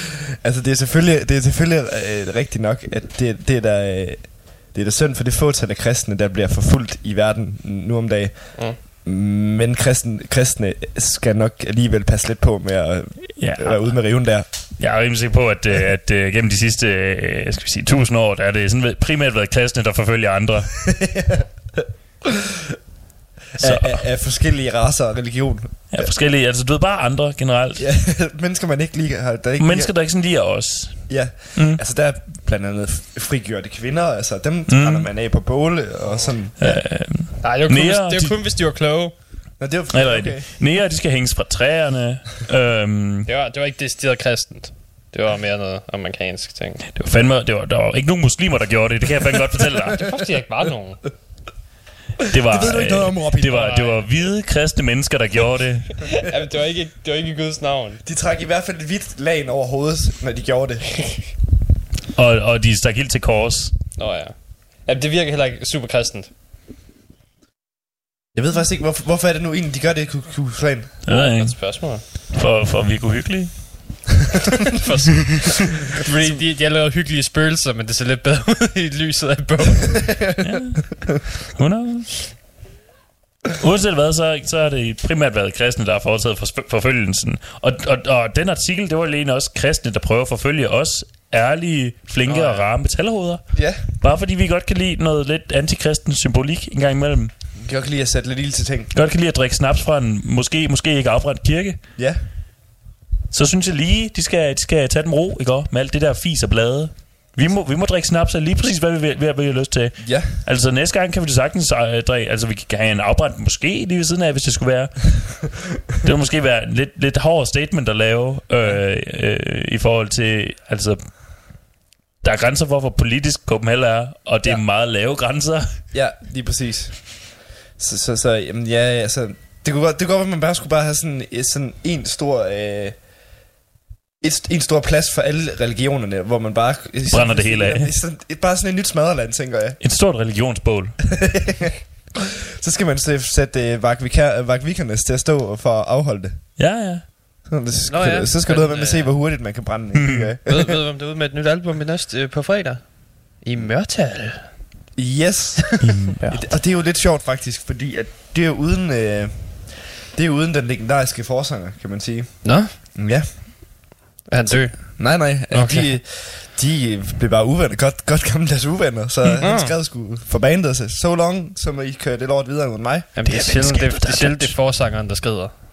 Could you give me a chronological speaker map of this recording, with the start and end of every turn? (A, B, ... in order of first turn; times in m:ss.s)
0:00.4-0:14.7 A
0:13.4-0:20.9 B
0:20.9-0:22.3 A
0:23.6-0:26.1 A
0:23.6-0:24.0 B
0:25.9-0:27.8 B
0:27.8-0:30.2 A
0:29.6-0:31.8 B
0:31.1-0:37.0 A
0:34.7-0:35.1 B
0:36.6-0:38.4 B
0:37.4-0:39.2 C
0:39.6-0:40.6 A
0:39.9-0:43.3 B
0:43.3-0:46.8 C
0:46.9-0:50.0 B
0:50.0-0:51.0 C
0:52.3-0:56.1 B
0:52.4-0:54.0 A
0:53.5-0:54.0 C
0:56.1-0:58.0 C
0:58.0-1:01.2 A
1:02.1-1:03.8 B
1:04.0-1:06.3 C
1:08.3-1:11.0 A
1:11.0-1:14.0 B
1:11.1-1:12.0 C
1:14.8-1:20.2 C
1:20.3-1:20.6 A
1:20.4-1:22.4 B
1:23.6-1:37.3 B
1:32.3-1:32.7 C
1:33.5-1:33.9 A
1:37.6-1:38.9 A
1:38.9-1:41.9 B
1:42.0-1:42.2 A
1:43.3-2:01.5 B
1:50.0-1:50.4 A
2:02.2-2:05.8 B
2:05.9-2:13.1 A
2:14.2-2:19.8 A
2:17.1-2:17.9 B
2:19.8-2:21.0 B
2:21.0-2:21.7 A
2:22.6-2:26.9 A
2:26.6-2:27.4 B
2:27.5-2:30.8 A
2:27.9-2:29.1 C
2:30.5-2:34.8 C
2:35.0-2:53.3 A
2:35.8-2:36.2 B
2:36.2-2:36.5 C
2:42.4-2:42.7 C
2:44.3-2:45.9 C
2:49.4-2:49.8 C
2:53.2-2:55.5 C
2:53.2-2:54.6 B